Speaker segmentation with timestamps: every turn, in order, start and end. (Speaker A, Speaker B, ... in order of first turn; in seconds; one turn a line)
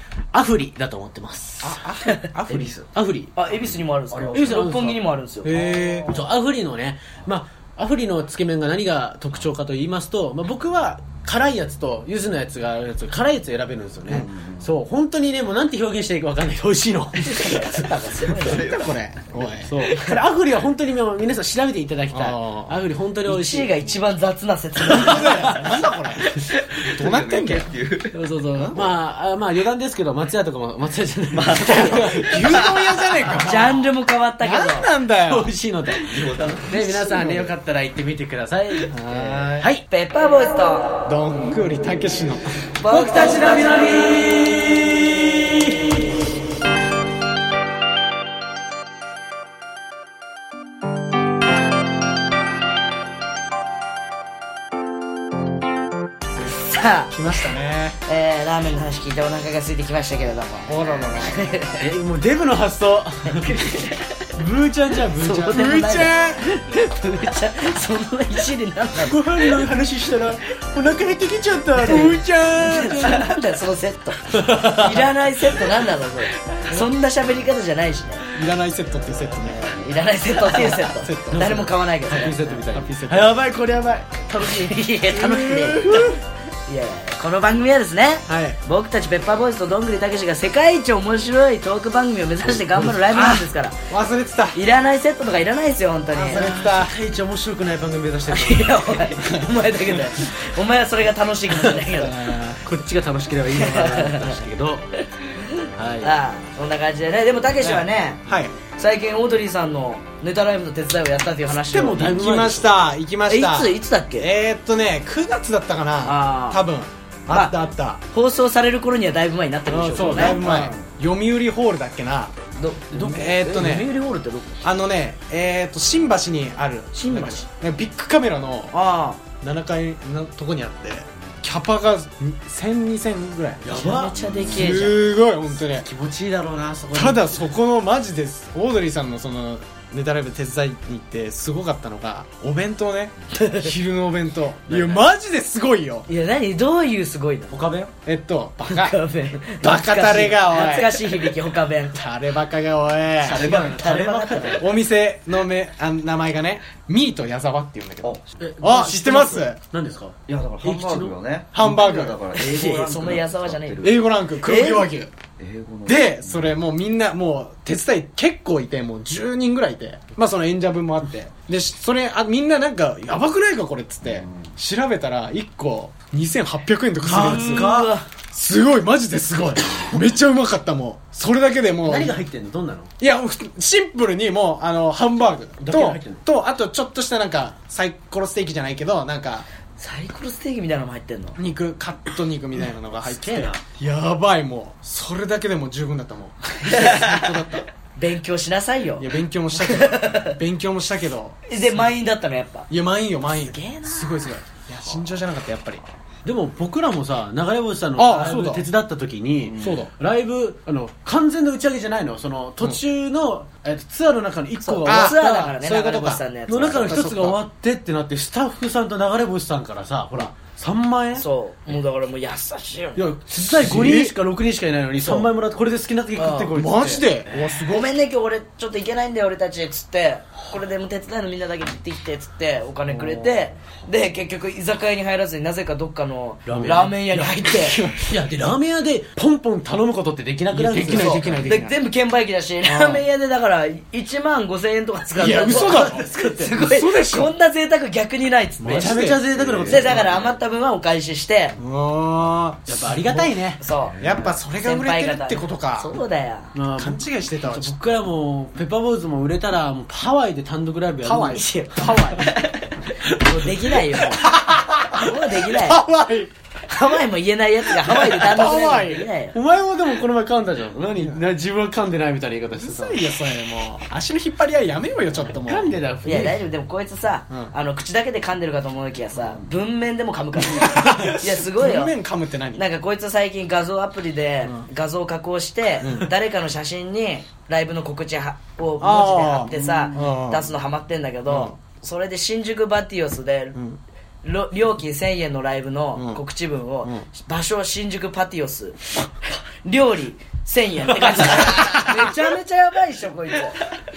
Speaker A: 0.3-1.8
Speaker B: 1.6-2.7
Speaker A: 2.5-3.3
Speaker C: 2.5-2.9
Speaker D: 3.4-5.5
Speaker C: 4.1-4.8
Speaker A: 4.3-5.0
Speaker B: 5.4-6.2
Speaker C: 5.5-6.3
Speaker A: 6.1-17.5
Speaker C: 14.1-14.7
Speaker D: 17.2-18.6
Speaker C: 17.3-19.5
Speaker B: 18.4-19.7
Speaker A: 19.6-23.7
Speaker B: 22.1-22.8
Speaker D: 23.2-25.6
Speaker B: 24.9-26.4
Speaker C: 26.5-28.8
Speaker B: 26.9-27.7
Speaker A: 28.1-32.6
Speaker B: 28.6-28.9
Speaker C: 31.3-33.5
Speaker B: 31.6-33.8
Speaker D: 33.4-34.9
Speaker B: 34.4-35.5
Speaker A: 35.3-39.8
Speaker C: 35.9-37.4
Speaker B: 37.1-37.5
Speaker B: 38.9-39.7
Speaker D: 39.9-41.0
Speaker B: 41.0-42.5
Speaker D: 42.8-44.0
Speaker A: 42.9-45.9
Speaker D: 56.6-57.4
Speaker B: 57.1-58.0
Speaker D: 58.0-60.7
Speaker B: 60.7-61.5
Speaker D: 61.3-61.8
Speaker A: 61.8-63.8
Speaker A: 64.3-65.7
Speaker D: 65.2-69.6
Speaker B: 65.5-66.4
Speaker A: 69.0-73.3
Speaker D: 71.8-78.2
Speaker B: 71.9-73.0
Speaker A: 74.3-75.1
Speaker B: 78.3-79.7
Speaker D: 79.5-82.3
Speaker B: 80.6-81.7
Speaker A: 81.3-86.1
Speaker B: 82.4-83.4
Speaker D: 84.4-85.8
Speaker B: 85.2-86.2
Speaker D: 86.7-93.8
Speaker B: 88.3-88.6
Speaker A: 92.6-92.9
Speaker B: 93.0-94.6
Speaker D: 94.5-96.5
Speaker A: 96.2-99.1
Speaker B: 96.3-96.9
Speaker D: 98.3-102.2
Speaker B: 101.9-102.6
Speaker A: 102.6-104.9
Speaker D: 103.5-104.4
Speaker A: 105.8-106.2
Speaker D: 106.0-112.1
Speaker B: 107.6-108.5
Speaker A: 111.5-112.7
Speaker B: 112.0-118.0
Speaker D: 113.3-114.3
Speaker D: 116.0-116.6
Speaker D: 118.1-120.4
Speaker B: 119.7-122.3
Speaker A: 119.9-120.7
Speaker C: 120.3-120.8
Speaker D: 122.6-124.6
Speaker A: 122.9-123.9
Speaker B: 123.0-123.9
Speaker B: 124.6-128.7
Speaker D: 126.9-127.4
Speaker D: 128.7-129.2
Speaker B: 129.4-133.8
Speaker A: 133.6-134.9
Speaker D: 133.7-135.0
Speaker C: 134.2-134.7
Speaker B: 134.5-135.9
Speaker A: 135.7-137.4
Speaker B: 136.9-146.1
Speaker D: 143.3-143.7
Speaker A: 144.7-145.0
Speaker D: 146.1-147.6
Speaker A: 147.5-147.9
Speaker B: 148.0-151.0
Speaker D: 148.7-152.0
Speaker B: 151.9-153.4
Speaker C: 153.2-154.5
Speaker A: 153.3-154.6
Speaker D: 153.4-154.6
Speaker B: 154.5-159.6
Speaker A: 158.4-161.1
Speaker C: 160.3-164.0
Speaker B: 161.5-162.2
Speaker D: 162.3-163.8
Speaker B: 162.8-163.2
Speaker B: 163.8-165.1
Speaker D: 164.4-164.9
Speaker C: 165.4-166.5
Speaker B: 165.9-177.7
Speaker C: 174.0-174.5
Speaker A: 177.0-177.9
Speaker D: 177.1-178.1
Speaker B: 178.3-182.2
Speaker A: 181.8-182.9
Speaker B: 183.0-189.4
Speaker A: 185.6-186.2
Speaker D: 189.8-191.4
Speaker B: 191.3-197.7
Speaker A: 193.0-193.6
Speaker D: 196.6-197.2
Speaker D: 197.9-200.4
Speaker B: 199.0-201.9
Speaker D: 201.5-202.7
Speaker B: 202.7-205.8
Speaker D: 203.4-204.3
Speaker A: 206.2-215.5
Speaker B: 207.9-208.7
Speaker C: 209.4-209.8
Speaker B: 209.6-209.9
Speaker D: 214.6-217.1
Speaker B: 214.8-217.4
Speaker A: 216.5-221.2
Speaker D: 221.2-223.1
Speaker A: 222.9-227.1
Speaker B: 223.4-224.2
Speaker D: 226.2-226.5
Speaker B: 226.5-227.9
Speaker D: 227.7-237.8
Speaker B: 232.9-233.3
Speaker A: 236.5-237.3
Speaker B: 236.5-238.1
Speaker A: 237.9-241.6
Speaker B: 240.5-241.8
Speaker D: 240.9-249.0
Speaker B: 242.6-243.0
Speaker B: 245.2-247.3
Speaker A: 245.4-246.4
Speaker A: 248.6-250.2
Speaker B: 248.6-249.2
Speaker C: 249.3-250.4
Speaker D: 249.7-251.6
Speaker B: 251.6-253.3
Speaker A: 252.7-253.6
Speaker D: 253.6-254.0
Speaker C: 253.9-254.3
Speaker B: 254.0-255.9
Speaker D: 254.6-256.5
Speaker A: 256.5-262.3
Speaker B: 256.8-257.7
Speaker B: 261.0-261.9
Speaker D: 261.3-262.1
Speaker A: 263.1-263.5
Speaker D: 263.2-264.3
Speaker B: 264.2-266.3
Speaker D: 264.9-265.8
Speaker D: 266.7-269.3
Speaker B: 267.8-269.1
Speaker A: 269.3-273.0
Speaker B: 270.9-271.2
Speaker B: 272.6-275.7
Speaker A: 275.3-276.4
Speaker D: 276.0-281.9
Speaker B: 280.4-282.6
Speaker D: 282.6-293.6
Speaker B: 285.8-286.1
Speaker B: 288.8-290.5
Speaker C: 289.5-290.0
Speaker B: 291.3-291.6
Speaker D: 294.2-298.8
Speaker B: 295.9-296.2
Speaker D: 299.6-303.6
Speaker B: 301.3-302.1